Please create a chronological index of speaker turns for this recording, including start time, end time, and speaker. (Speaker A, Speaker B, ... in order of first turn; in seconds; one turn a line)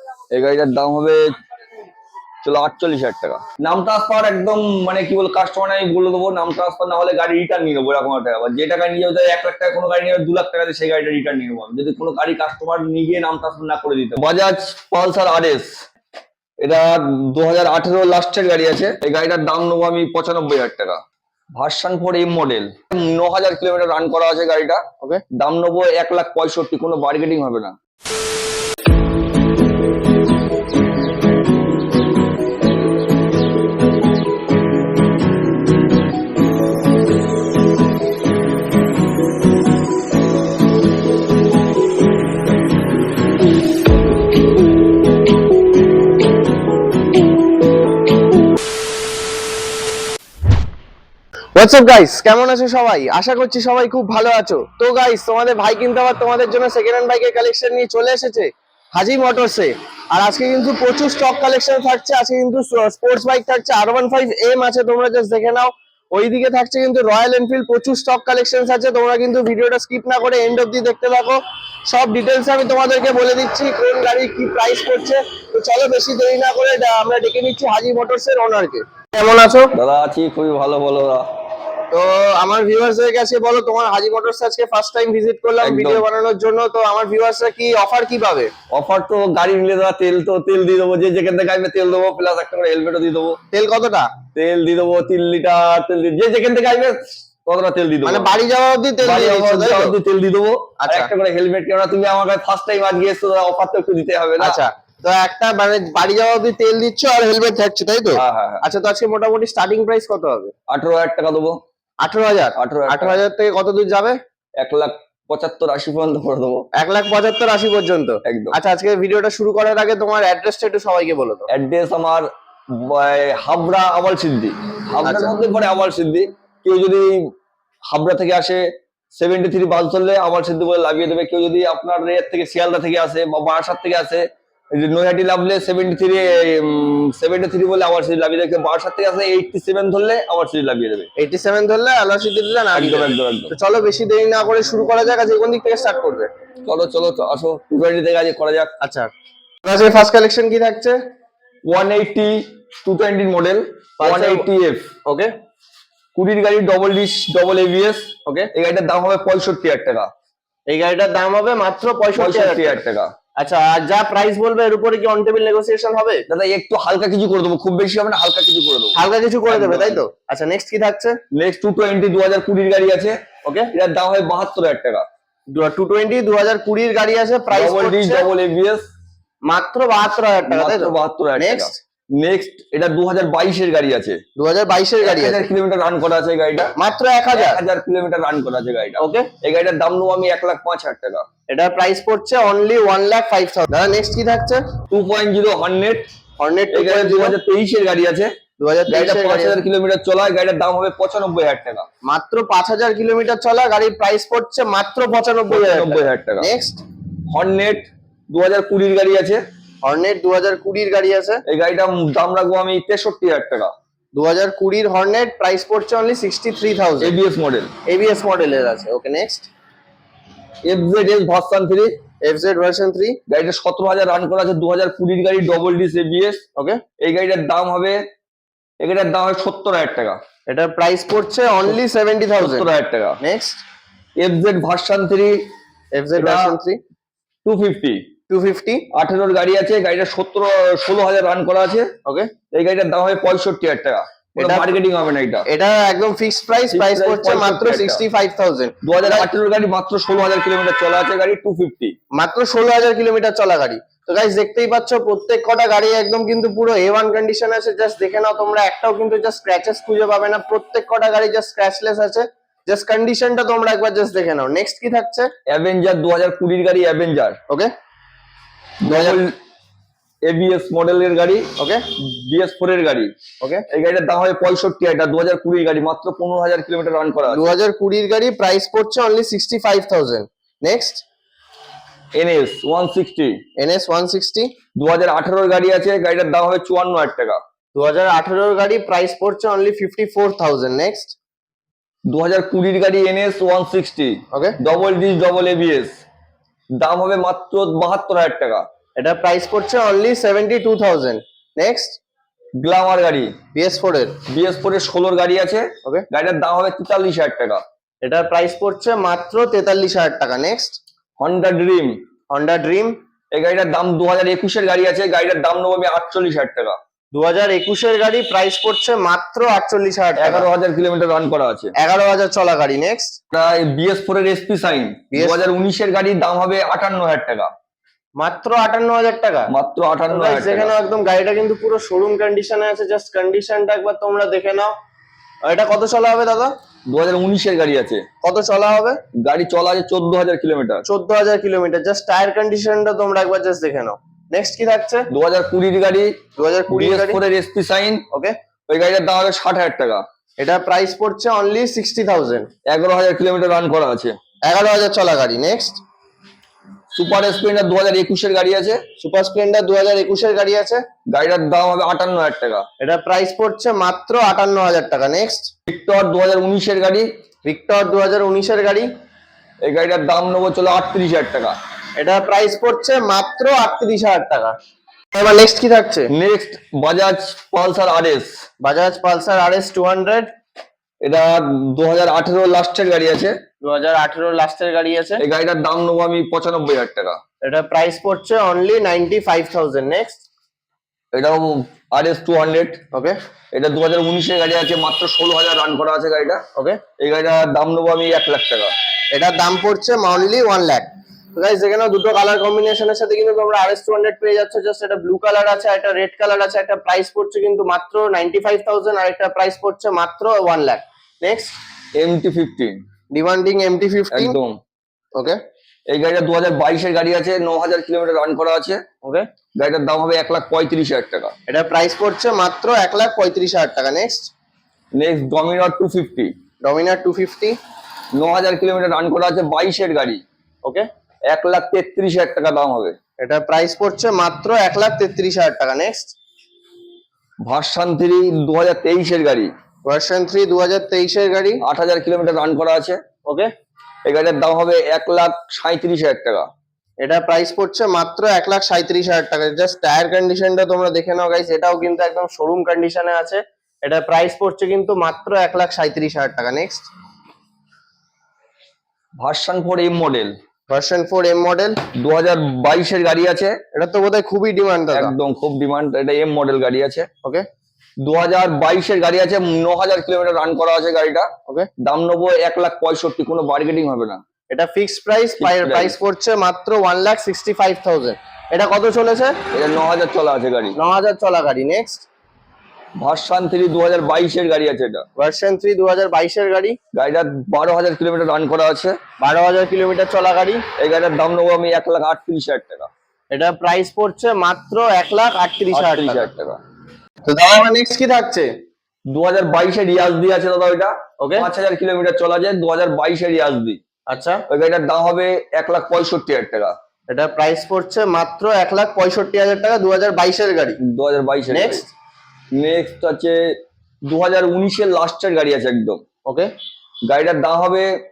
Speaker A: 0.3-1.4
Speaker A: 2.4-15.7
Speaker A: 16.6-21.0
Speaker A: 21.6-24.8
Speaker A: 25.4-27.8
Speaker B: 51.5-79.7
Speaker A: 79.7-81.2
Speaker B: 81.9-88.5
Speaker A: 85.6-86.0
Speaker A: 88.7-93.4
Speaker B: 93.5-94.1
Speaker A: 94.3-98.3
Speaker B: 98.0-100.0
Speaker A: 99.0-104.6
Speaker B: 100.8-101.1
Speaker B: 104.4-110.5
Speaker A: 108.1-108.7
Speaker A: 110.7-111.6
Speaker B: 112.0-114.2
Speaker A: 112.6-113.2
Speaker A: 114.6-116.7
Speaker B: 116.8-121.5
Speaker A: 118.2-118.6
Speaker A: 121.5-127.2
Speaker B: 125.0-125.4
Speaker A: 127.9-128.6
Speaker A: 129.2-141.1
Speaker B: 141.2-146.3
Speaker A: 142.8-143.5
Speaker A: 146.7-148.8
Speaker B: 148.8-149.1
Speaker B: 149.6-151.0
Speaker A: 151.7-154.9
Speaker B: 154.0-154.5
Speaker B: 155.1-155.3
Speaker A: 156.2-160.1
Speaker B: 158.3-158.5
Speaker B: 160.7-162.8
Speaker A: 162.2-163.1
Speaker B: 163.4-166.2
Speaker A: 166.3-170.0
Speaker B: 168.9-171.2
Speaker A: 171.3-173.2
Speaker B: 173.4-173.7
Speaker A: 173.7-175.0
Speaker B: 175.5-178.3
Speaker A: 177.5-178.9
Speaker B: 179.5-181.8
Speaker A: 180.5-184.2
Speaker B: 184.4-185.4
Speaker A: 185.0-186.8
Speaker B: 186.8-187.6
Speaker A: 187.3-191.3
Speaker B: 189.0-189.3
Speaker B: 191.5-194.7
Speaker A: 194.9-196.1
Speaker B: 196.4-197.4
Speaker A: 196.7-198.3
Speaker B: 198.6-199.6
Speaker A: 198.9-201.9
Speaker B: 202.0-206.8
Speaker A: 205.5-206.5
Speaker A: 207.3-209.4
Speaker B: 209.8-211.4
Speaker A: 211.5-213.7
Speaker B: 214.1-217.1
Speaker A: 217.0-217.7
Speaker B: 217.9-219.5
Speaker A: 220.6-221.9
Speaker B: 222.2-223.2
Speaker A: 223.3-226.4
Speaker B: 226.6-226.8
Speaker A: 227.0-228.0
Speaker A: 228.8-230.2
Speaker B: 230.5-232.7
Speaker A: 232.4-233.2
Speaker B: 233.2-233.6
Speaker A: 234.2-235.5
Speaker B: 235.9-236.8
Speaker A: 236.2-236.6
Speaker A: 237.4-238.1
Speaker B: 238.3-238.9
Speaker A: 238.9-241.9
Speaker B: 242.1-242.3
Speaker A: 242.5-245.5
Speaker B: 244.4-244.8
Speaker B: 245.5-249.3
Speaker A: 246.7-248.0
Speaker A: 248.8-251.9
Speaker B: 252.2-265.3
Speaker A: 265.5-267.4
Speaker A: 268.8-269.4
Speaker B: 268.9-269.2
Speaker A: 270.2-273.1
Speaker B: 271.6-271.8
Speaker A: 273.7-277.5
Speaker B: 277.3-281.0
Speaker A: 282.1-283.4
Speaker B: 283.6-284.5
Speaker A: 284.8-287.4
Speaker B: 287.8-291.1
Speaker A: 292.1-296.0
Speaker B: 294.3-294.6
Speaker A: 296.8-298.7
Speaker B: 299.0-302.0
Speaker A: 302.6-303.4
Speaker B: 303.5-304.2
Speaker A: 304.3-307.6
Speaker B: 308.0-310.8
Speaker A: 311.2-312.0
Speaker B: 312.3-312.9
Speaker A: 313.3-316.8
Speaker B: 317.1-320.5
Speaker A: 320.2-321.7
Speaker B: 321.8-323.1
Speaker A: 323.3-327.5
Speaker B: 325.1-325.4
Speaker B: 328.2-329.5
Speaker A: 329.5-330.7
Speaker B: 330.1-334.7
Speaker B: 335.5-336.6
Speaker A: 336.9-338.0
Speaker B: 338.2-339.0
Speaker A: 339.1-340.9
Speaker B: 340.9-345.1
Speaker A: 345.1-348.1
Speaker B: 346.4-347.2
Speaker B: 348.1-348.4
Speaker A: 348.7-350.0
Speaker B: 350.4-352.5
Speaker A: 352.7-354.1
Speaker B: 354.5-355.8
Speaker A: 356.9-358.8
Speaker B: 359.0-360.8
Speaker A: 361.1-362.6
Speaker B: 362.8-365.5
Speaker A: 365.7-367.1
Speaker B: 367.4-368.9
Speaker A: 369.6-371.6
Speaker B: 372.0-374.6
Speaker B: 375.1-376.1
Speaker A: 376.1-378.4
Speaker B: 378.6-380.3
Speaker A: 381.0-383.4
Speaker B: 383.6-385.2
Speaker A: 385.2-387.2
Speaker B: 387.4-390.2
Speaker A: 391.1-392.8
Speaker B: 392.9-393.2
Speaker A: 393.5-396.4
Speaker B: 396.6-396.8
Speaker A: 397.0-398.7
Speaker B: 399.1-411.6
Speaker A: 412.0-412.8
Speaker B: 413.1-414.4
Speaker A: 414.1-414.6
Speaker A: 415.9-418.8
Speaker A: 419.6-421.3
Speaker B: 421.5-424.3
Speaker A: 424.9-426.3
Speaker B: 426.6-427.6
Speaker A: 428.1-430.2
Speaker A: 431.3-433.0
Speaker B: 433.2-436.1
Speaker A: 437.5-439.5
Speaker B: 439.9-441.6
Speaker A: 441.6-443.0
Speaker B: 443.3-443.5
Speaker A: 444.1-446.5
Speaker B: 447.0-456.9
Speaker A: 459.2-460.3
Speaker B: 460.7-461.8
Speaker A: 461.9-463.6
Speaker B: 463.7-465.1
Speaker A: 464.9-467.1
Speaker A: 468.0-474.2
Speaker B: 474.5-479.4
Speaker A: 475.4-476.0
Speaker A: 479.5-480.8
Speaker B: 480.8-482.1
Speaker A: 483.0-485.1
Speaker B: 485.2-486.8
Speaker A: 486.9-489.0
Speaker B: 489.2-490.6
Speaker A: 490.8-492.9
Speaker B: 493.3-496.3
Speaker A: 495.7-496.6
Speaker B: 497.3-498.5
Speaker A: 499.1-503.8
Speaker B: 501.2-501.5
Speaker B: 504.1-504.4
Speaker A: 504.5-506.7
Speaker B: 507.1-510.8
Speaker A: 510.8-511.9
Speaker B: 511.5-511.9
Speaker A: 512.5-513.4
Speaker A: 514.1-516.0
Speaker B: 516.3-516.5
Speaker A: 517.1-517.9